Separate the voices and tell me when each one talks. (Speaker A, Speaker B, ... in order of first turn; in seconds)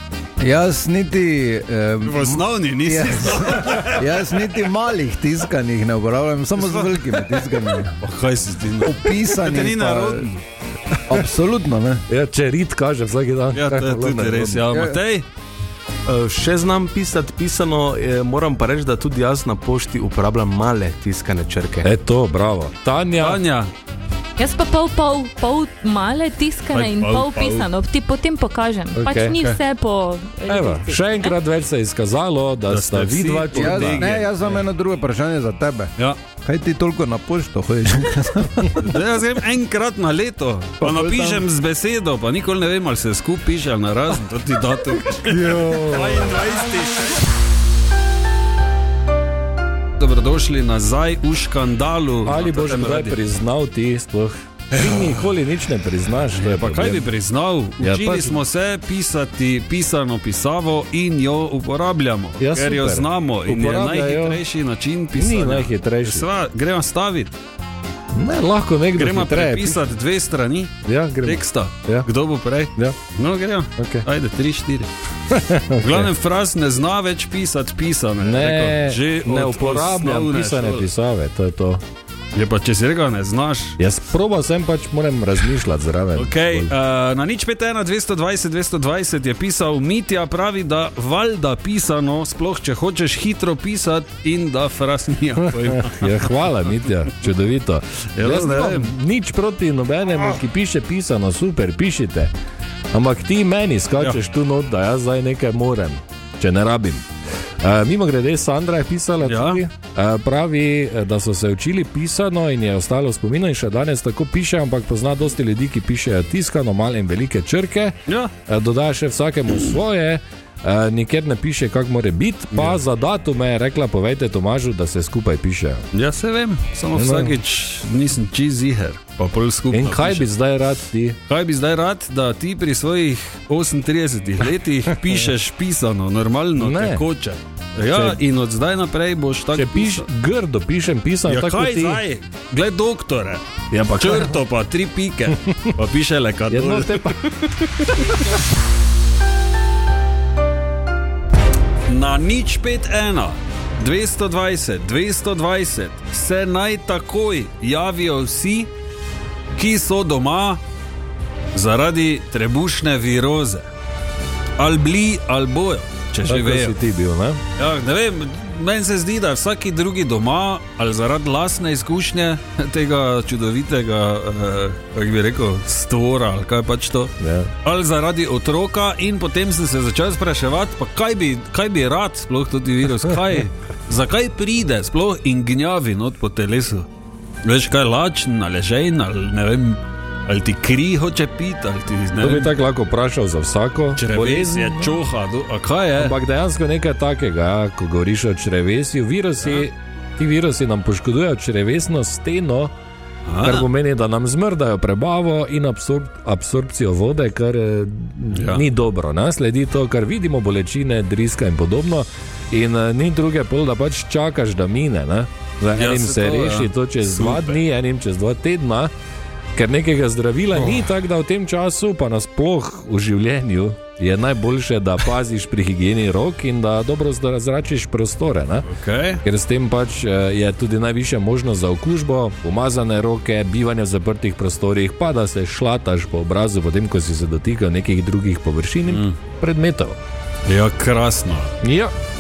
Speaker A: 0.4-7.9, 8.8-10.3, 11.1-12.1, 14.7-15.0, 33.5-38.8, 40.8-41.4, 45.5-46.1
Speaker B: 2.0-4.4, 6.6-11.0, 13.5-15.3, 23.2-23.7, 26.7-27.7, 32.7-34.6, 38.8-47.2, 50.0-53.2, 54.7-55.3, 56.2-67.3, 69.0-74.9, 75.8-80.9, 82.3-83.8, 86.2-96.3, 98.1-98.9, 109.2-109.6, 118.1-118.3, 122.5-122.8, 125.9-130.3, 131.3-140.1, 141.3-147.1, 147.8-148.2, 151.9-158.7, 159.6-160.6, 161.5-163.7, 164.6-166.8, 167.6-186.9, 187.4-192.6, 193.9-196.1, 203.3-203.7, 208.3-208.7, 215.7-217.6, 228.7-229.2, 238.9-239.2, 240.5-241.5
Speaker C: 12.1-14.7, 21.8-23.4, 28.9-29.4, 30.5-34.2, 45.5-46.3, 52.2-57.1, 57.8-58.4, 62.4-64.4, 65.1-66.3, 68.1-69.9, 70.8-72.1, 73.8-74.1, 75.3-76.1, 78.2-81.8, 83.8-86.7, 95.5-102.3, 102.9-107.1, 107.6-125.9, 126.9-127.4, 129.7-131.2, 136.6-137.1, 137.9-138.2, 139.5-142.0, 143.7-144.4, 146.5-147.3, 166.2-167.4, 177.2-177.5, 192.2-195.0, 196.0-202.7, 203.4-218.9, 219.6-228.7, 229.2-240.0, 241.6-241.9
Speaker D: 16.1-21.9
Speaker E: 24.4-31.3